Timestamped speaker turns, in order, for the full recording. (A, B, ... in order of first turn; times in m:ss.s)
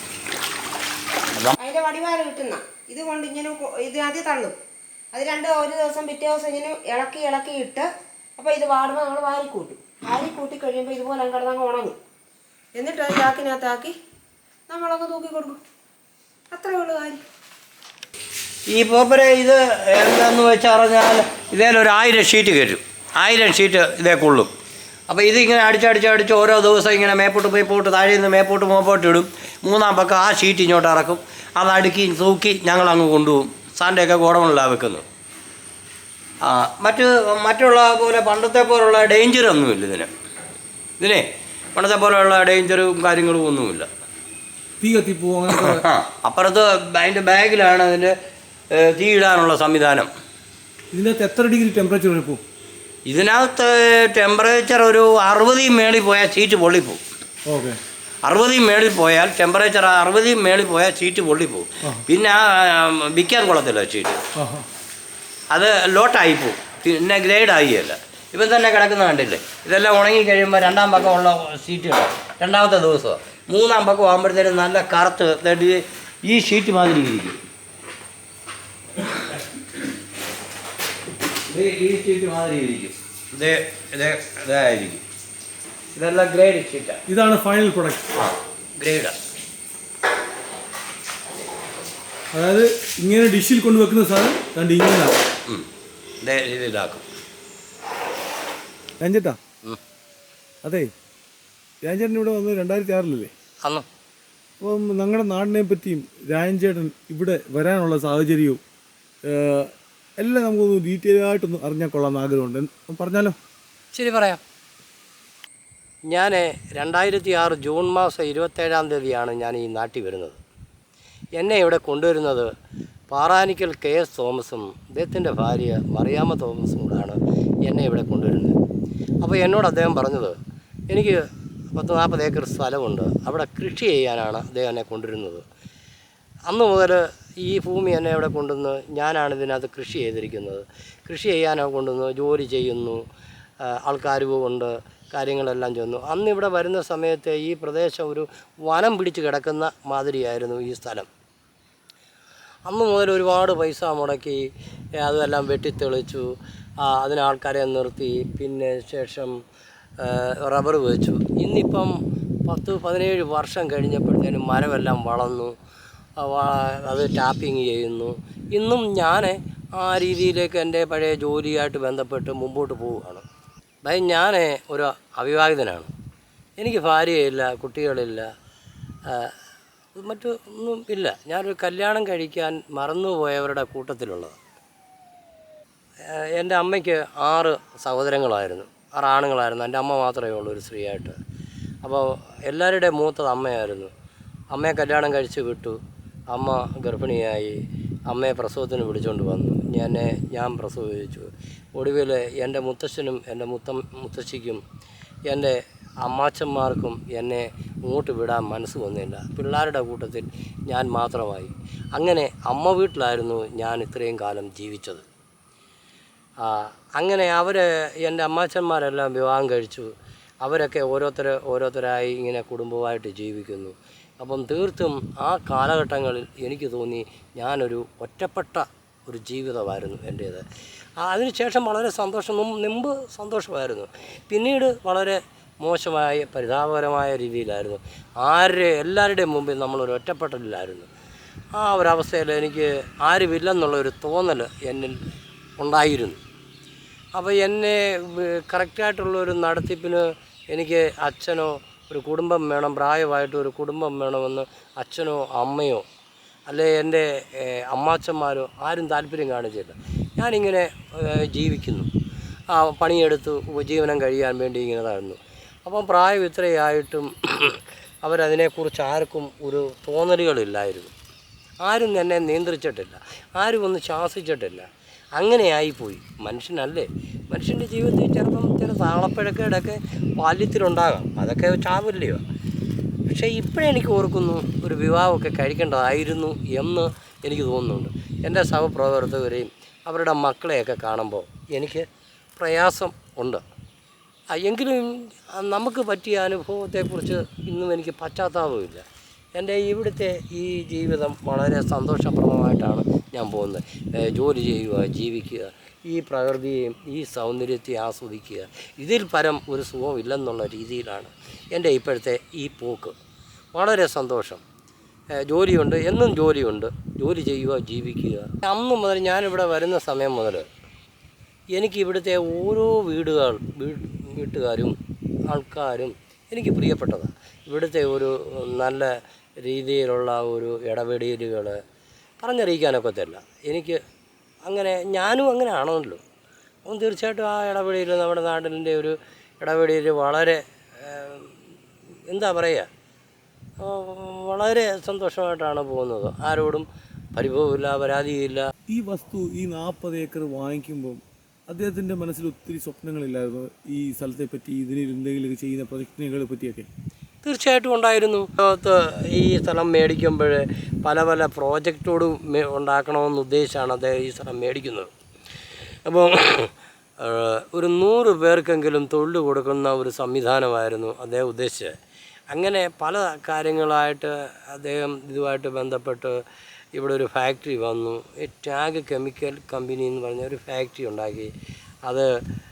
0:01.6-0:04.6 A
0:05.1-0:12.0 A
0:12.8-0:14.0 A
0:14.7-0:15.6 A
0:16.5-0:17.2 A
0:18.7-0:24.5 B
0:25.1-0:35.0 B
0:36.4-0:40.1 B
0:41.0-0:43.9 B
0:44.8-0:45.8 C
0:45.5-0:48.2 B
0:48.7-0:50.1 B
0:50.9-0:52.4 C
0:53.1-0:57.0 B
0:57.5-0:57.8 C
0:58.2-1:04.2 B
1:04.4-1:04.7 C
1:05.5-1:17.4 B
1:21.5-1:25.0 B
1:25.9-1:27.0 B
1:27.1-1:28.1 C
1:28.2-1:29.2 B
1:32.3-1:35.2 C
1:36.2-1:37.0 B
1:39.0-1:39.4 C
1:40.6-1:40.9 C
1:41.8-1:43.3 C
1:44.6-1:48.6 C
1:49.2-1:53.4 C
1:53.9-1:54.4 B
1:56.1-2:00.4 B
2:01.4-2:02.5 B
2:03.1-2:08.6 B
2:09.2-2:10.4 B
2:10.9-2:15.4 B
2:16.5-2:23.0 B
2:23.6-2:31.1 B
2:32.7-2:39.4 B
2:40.0-2:45.5 B
2:46.2-2:53.2 B
2:53.8-2:55.9 B
2:56.6-2:58.3 B
2:59.1-2:59.4 B
3:00.0-3:04.4 B
3:06.0-3:11.2 B
3:11.8-3:13.9 B
3:14.5-3:15.8 B
3:16.3-3:24.6 B
3:25.3-3:35.0 B
3:36.4-3:50.4 B
3:51.0-4:00.9 B
4:01.6-4:05.0 B
4:05.6-4:06.2 B
4:07.2-4:15.9 B
4:16.5-4:21.9 B
4:22.5-4:30.9 B
4:31.6-4:42.2 B
4:43.1-4:53.4 B
4:54.3-4:58.8 B
4:59.4-5:13.0 B
5:13.6-5:14.4 B
5:15.2-5:20.5 B
5:21.6-5:31.6 B
5:32.2-5:33.8 B
5:34.5-5:36.0 B
5:36.7-5:41.4 B
5:42.1-5:42.7 B
5:43.6-5:48.5 B
5:48.7-5:56.7 C
5:57.2-6:04.9 B
6:05.8-6:11.8 B
6:12.3-6:16.2 B
6:16.8-6:21.3 B
6:21.9-6:22.1 B